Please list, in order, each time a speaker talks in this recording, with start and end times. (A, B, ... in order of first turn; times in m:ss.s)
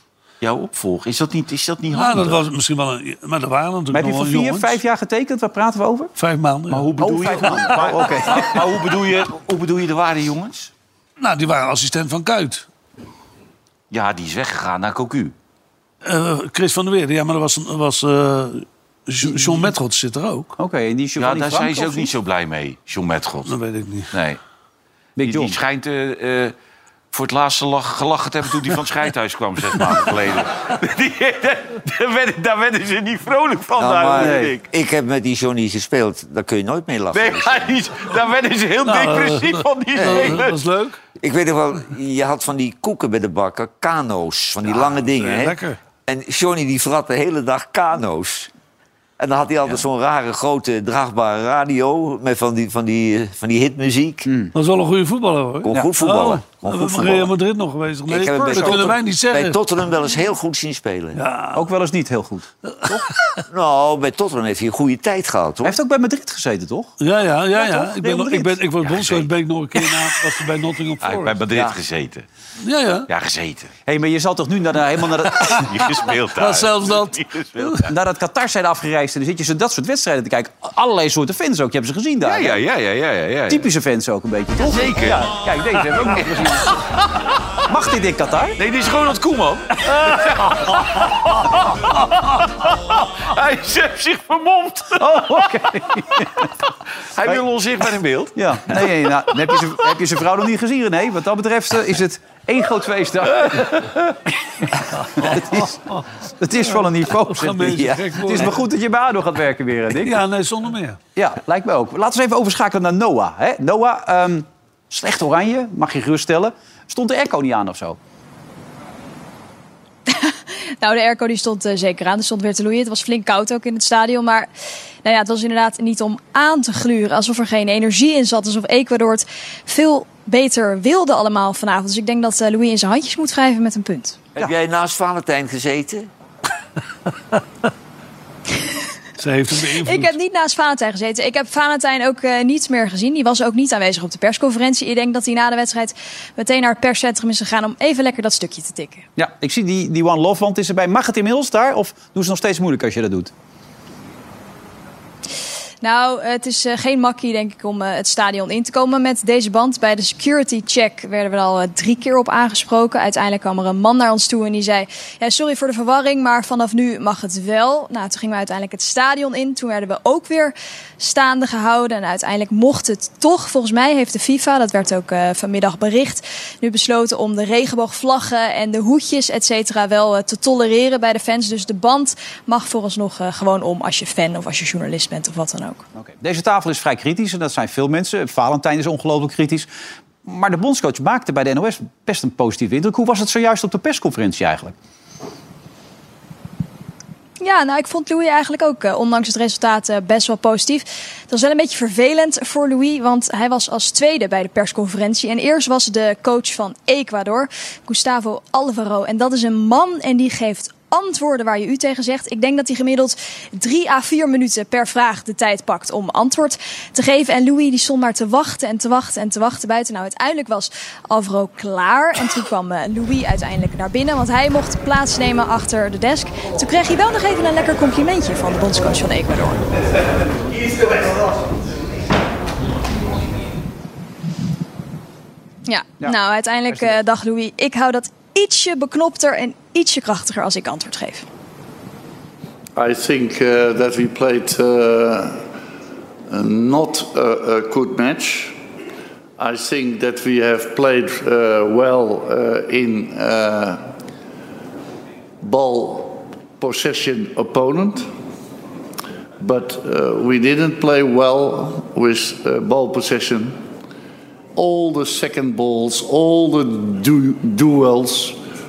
0:00.4-0:02.4 A
0:01.9-0:04.8 B
0:03.9-0:06.1 C
0:06.2-0:06.9 B
0:06.7-0:08.7 C
0:06.8-0:10.7 A
0:07.4-0:07.7 B
0:11.2-0:12.6 B
0:13.9-0:15.3 A
0:16.0-0:20.5 B
0:19.2-0:19.6 C
0:20.6-0:22.1 C
0:21.2-0:23.6 A
0:23.4-0:24.1 B
0:24.1-0:24.4 A
0:25.2-0:25.6 C
0:25.2-0:26.5 A
0:27.1-0:34.6 A
0:33.8-0:37.8 D
0:34.1-0:34.5 C
0:37.1-0:40.6 A
0:38.8-0:41.0 B
0:40.0-0:40.4 D
0:41.2-0:48.5 D
0:44.8-0:45.8 B
0:49.2-0:54.3 D
0:54.3-0:54.5 C
0:54.5-0:59.6 B
0:55.6-0:57.3 D
0:58.1-1:01.2 D
1:01.1-1:01.6 B
1:01.5-1:03.0 C
1:02.6-1:03.4 B
1:03.5-1:05.8 D
1:05.6-1:06.9 C
1:07.0-1:11.4 B
1:07.6-1:08.6 D
1:08.8-1:09.3 A
1:11.0-1:12.2 A
1:12.6-1:13.1 B
1:13.1-1:13.7 A
1:13.9-1:15.7 C
1:15.3-1:17.9 A
1:16.4-1:17.9 B
1:17.9-1:22.6 C
1:22.2-1:23.6 A
1:23.5-1:26.7 C
1:24.6-1:26.8 A
1:27.7-1:28.6 C
1:28.6-1:35.5 A
1:35.0-1:36.5 C
1:37.1-1:39.0 A
1:38.3-1:43.9 C
1:43.4-1:43.6 A
1:45.1-1:46.0 B
1:45.2-1:45.8 C
1:46.4-1:50.2 C
1:46.8-1:48.6 B
1:50.0-1:51.0 B
1:51.2-1:58.0 C
2:00.1-2:04.5 E
2:05.0-2:14.2 E
2:14.4-2:16.1 D
2:19.2-2:20.1 B
2:19.8-2:29.0 E
2:29.2-2:33.3 C
2:35.8-3:05.8 E
3:05.9-3:09.7 C
3:10.2-3:14.7 C
3:17.4-3:49.6 E
3:55.7-4:01.2 E
3:56.7-3:57.0 C
4:02.8-4:05.5 F
4:06.3-4:08.6 F
4:09.4-4:13.8 F
4:15.4-4:18.1 F
4:19.4-4:23.6 F
4:24.5-4:28.4 F